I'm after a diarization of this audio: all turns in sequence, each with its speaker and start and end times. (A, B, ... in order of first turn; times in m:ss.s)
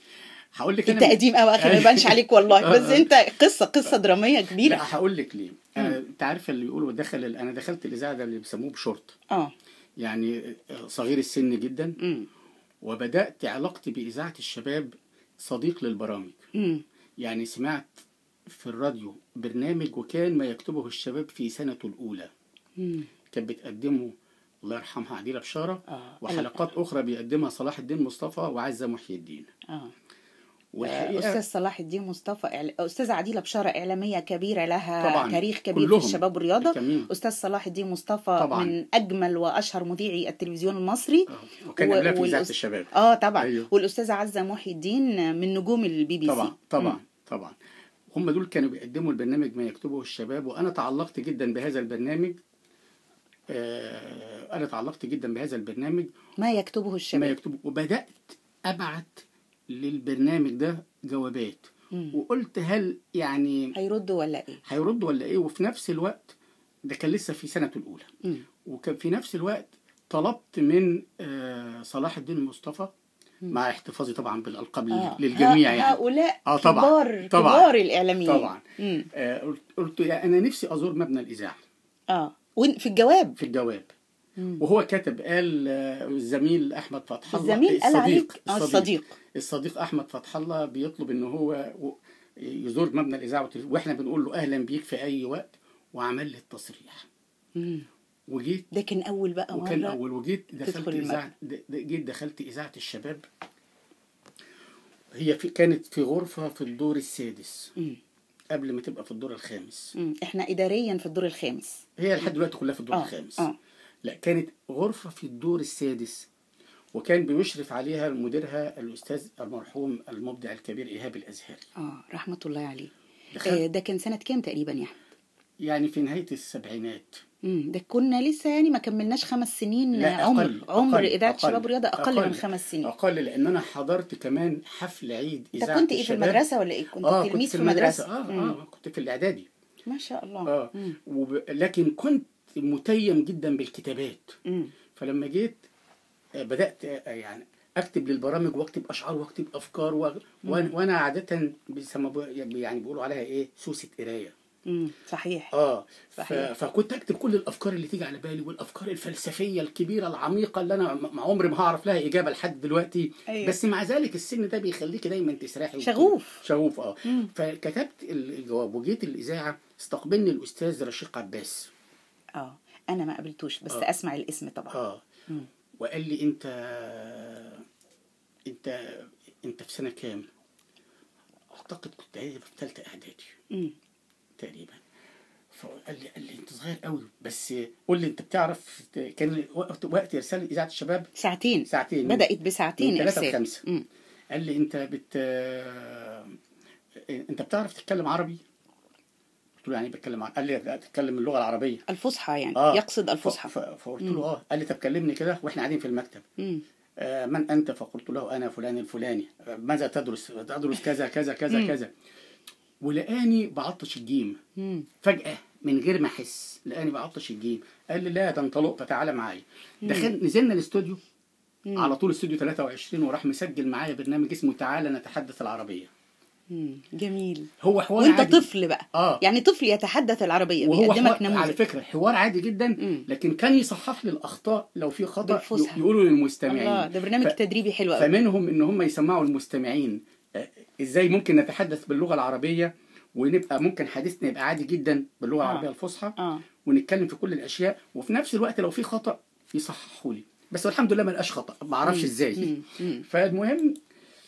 0:00.6-0:03.1 A
0:00.9-0:04.9 B
0:04.5-0:09.2 A
0:10.0-0:12.0 A
0:12.0-0:12.3 B
0:12.8-0:16.4 A
0:16.6-0:16.8 B
0:17.2-0:22.3 A
0:22.8-0:23.1 B
0:23.3-0:24.1 A
0:24.6-0:29.5 A
0:25.9-0:26.7 B
0:30.7-0:31.4 A
0:30.8-0:47.0 B
0:35.0-0:37.1 A
0:38.4-0:38.8 A
0:41.3-0:43.7 A
0:46.2-0:47.6 A
0:48.1-0:52.4 A
0:53.5-0:56.1 A
0:56.4-0:57.4 B
0:57.1-1:03.7 A
1:03.8-1:04.6 B
1:04.7-1:06.4 A
1:06.9-1:08.1 A
1:08.6-1:12.9 A
1:13.5-1:17.7 A
1:14.9-1:19.1 B
1:18.2-1:18.6 A
1:19.1-1:21.6 A
1:22.1-1:23.4 B
1:23.4-1:23.9 A
1:24.4-1:24.6 B
1:24.6-1:37.1 A
1:27.3-1:29.2 B
1:37.6-1:37.9 B
1:38.3-1:38.7 A
1:38.7-1:40.0 B
1:39.5-1:43.2 A
1:40.6-1:41.2 B
1:45.2-1:47.7 A
1:48.5-1:49.9 A
1:50.0-1:52.3 B
1:52.0-1:53.5 A
1:52.9-1:53.6 B
1:54.0-1:56.3 A
1:56.9-2:01.6 A
2:01.8-2:02.9 B
2:03.3-2:03.6 A
2:03.4-2:05.0 B
2:05.6-2:07.2 A
2:07.4-2:12.9 B
2:10.0-2:16.4 A
2:15.6-2:18.6 B
2:17.0-2:19.5 A
2:19.9-2:21.0 B
2:20.5-2:24.4 A
2:24.5-2:24.7 B
2:25.0-2:25.6 A
2:26.4-2:34.3 A
2:30.4-2:30.7 B
2:34.7-2:35.5 B
2:35.5-2:51.7 A
2:36.2-2:36.5 B
2:43.3-2:43.6 B
2:45.8-2:46.4 B
2:47.1-2:47.3 B
2:52.4-2:54.8 B
2:54.7-2:55.0 A
2:55.8-2:57.7 A
2:58.5-3:00.3 A
3:01.5-3:03.3 A
3:04.4-3:04.8 A
3:05.5-3:11.1 A
3:11.2-3:13.8 B
3:11.7-3:12.3 A
3:12.8-3:13.6 A
3:14.3-3:16.4 A
3:17.0-3:18.4 A
3:19.6-3:21.8 A
3:21.9-3:24.2 B
3:22.6-3:26.2 A
3:26.4-3:26.6 B
3:27.0-3:31.9 A
3:32.8-3:34.4 A
3:34.6-3:34.9 B
3:35.0-3:41.0 A
3:39.8-3:40.1 B
3:41.7-3:42.0 B
3:41.8-3:45.9 A
3:46.5-3:51.6 B
3:47.6-3:49.2 A
3:50.6-3:57.4 A
3:52.8-3:53.1 B
3:55.2-3:55.8 B
3:56.5-3:58.1 B
3:58.0-4:13.8 A
4:05.4-4:06.4 B
4:11.8-4:13.0 B